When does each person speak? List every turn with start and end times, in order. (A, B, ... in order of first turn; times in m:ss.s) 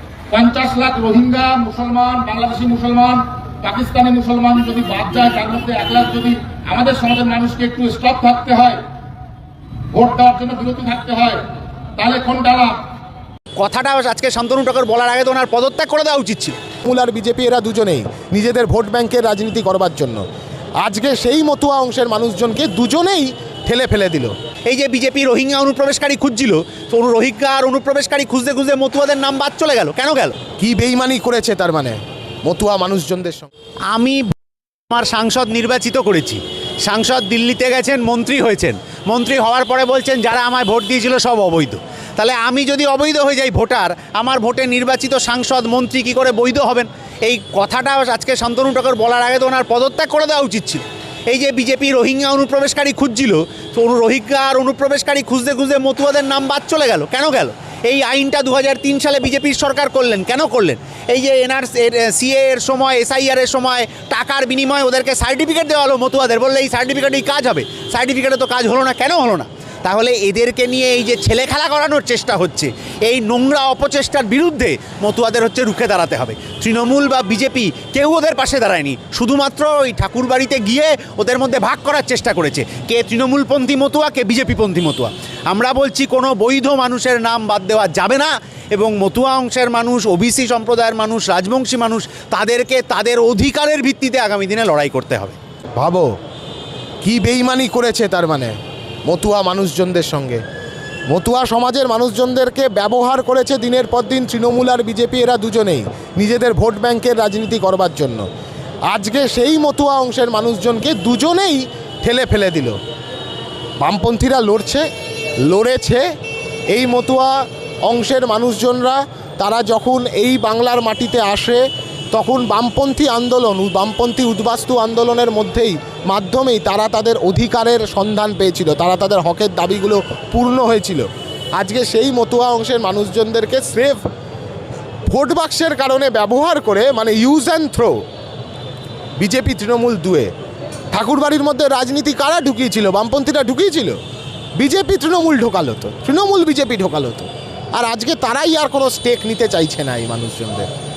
0:00.3-0:08.8 A
0:09.9-0:11.4 A
0:12.0-0:12.8 A
0:13.6-0:16.6 B
0:16.8-0:20.2 C
0:20.8-0:24.3 C
0:24.7-0:30.4 B
0:30.6-0:33.5 C
0:33.9-0:34.3 B
0:34.9-1:35.4 B
1:35.8-1:36.1 C
1:37.0-1:38.5 C
1:39.0-1:40.4 C
1:41.1-1:48.2 C
1:48.9-1:52.8 C
1:53.8-1:54.8 C
1:55.5-1:56.0 C
1:56.7-1:57.3 C
1:57.9-2:01.6 C
2:02.1-2:14.0 C
2:15.1-2:18.0 C
2:19.2-2:20.3 C
2:20.9-2:24.0 C
2:24.6-2:30.7 C